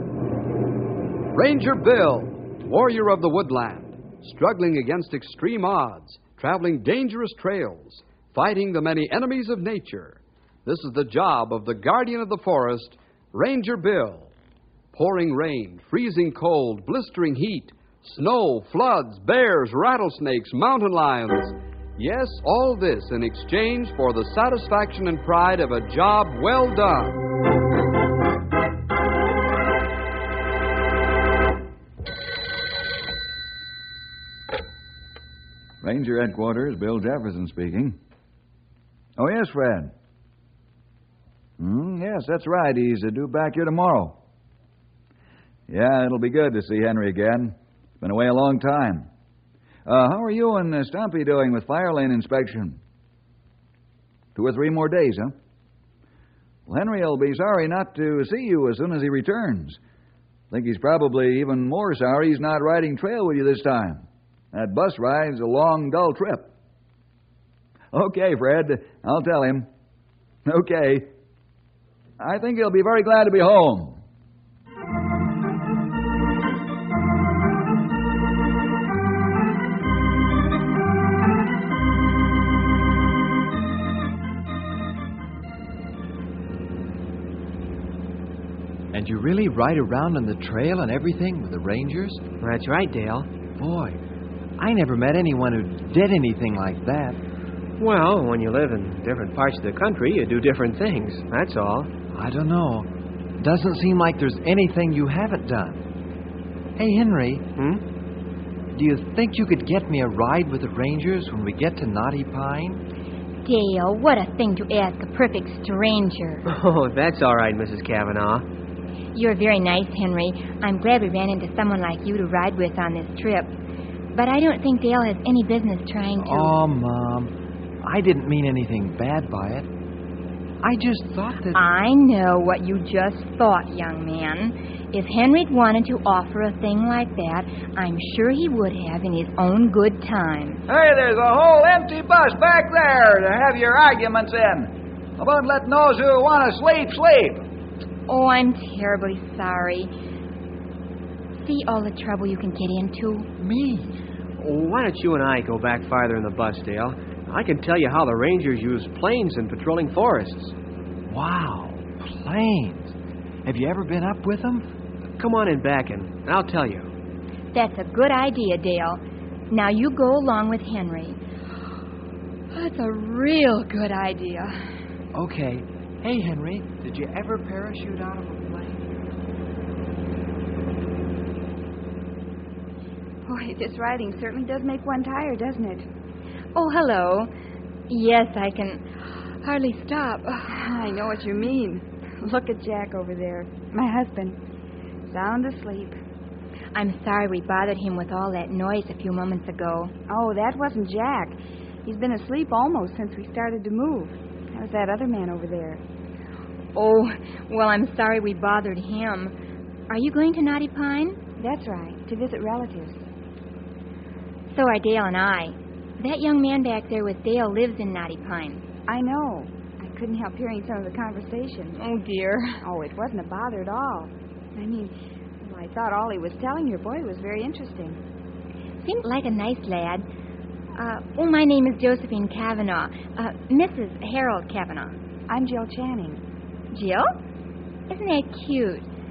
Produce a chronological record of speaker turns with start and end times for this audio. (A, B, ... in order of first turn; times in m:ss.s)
0:01.3-0:14.3 A
0:14.9-0:27.2 A
0:35.8-0:38.0 B
0:39.2-0:39.9 B
0:41.6-0:44.2 B
0:45.7-0:49.1 B
0:49.8-0:52.8 B
0:54.3-0:55.3 B
0:56.7-0:59.8 B
1:00.5-1:06.5 B
1:07.9-1:09.7 B
1:10.4-1:11.1 B
1:12.2-1:14.0 B
1:28.9-1:32.2 C
1:32.4-1:33.3 D
1:33.6-1:34.0 C
1:34.6-1:37.2 C
1:37.8-1:41.9 D
1:42.1-1:45.8 C
1:46.8-1:47.4 C
1:47.6-1:47.8 D
1:48.7-1:52.8 C
1:53.4-1:56.4 E
1:56.4-1:58.4 D
1:59.1-2:03.6 E
2:04.1-2:06.6 E
2:06.2-2:09.7 C
2:10.6-2:11.6 C
2:11.5-2:20.6 E
2:20.7-2:27.5 B
2:28.1-2:29.9 E
2:31.4-2:33.3 E
2:33.4-2:34.0 C
2:34.4-2:40.5 D
2:41.1-2:44.7 C
2:45.2-2:46.9 D
2:47.5-2:51.2 E
2:52.5-2:54.6 E
2:55.1-2:58.8 C
3:03.2-3:05.9 F
3:06.5-3:07.3 E
3:07.9-3:08.8 E
3:09.4-3:10.7 E
3:10.5-3:14.4 F
3:15.1-3:15.9 F
3:16.7-3:19.9 E
3:20.1-3:25.8 F
3:26.7-3:29.3 E
3:29.9-3:31.2 E
3:31.4-3:33.1 F
3:34.5-3:38.6 E
3:38.9-3:41.8 F
3:41.7-3:42.6 E
3:42.6-3:48.0 F
3:48.8-3:50.0 E
3:50.8-3:55.0 E
3:55.3-3:56.2 F
3:56.7-3:57.1 E
3:57.9-3:58.9 E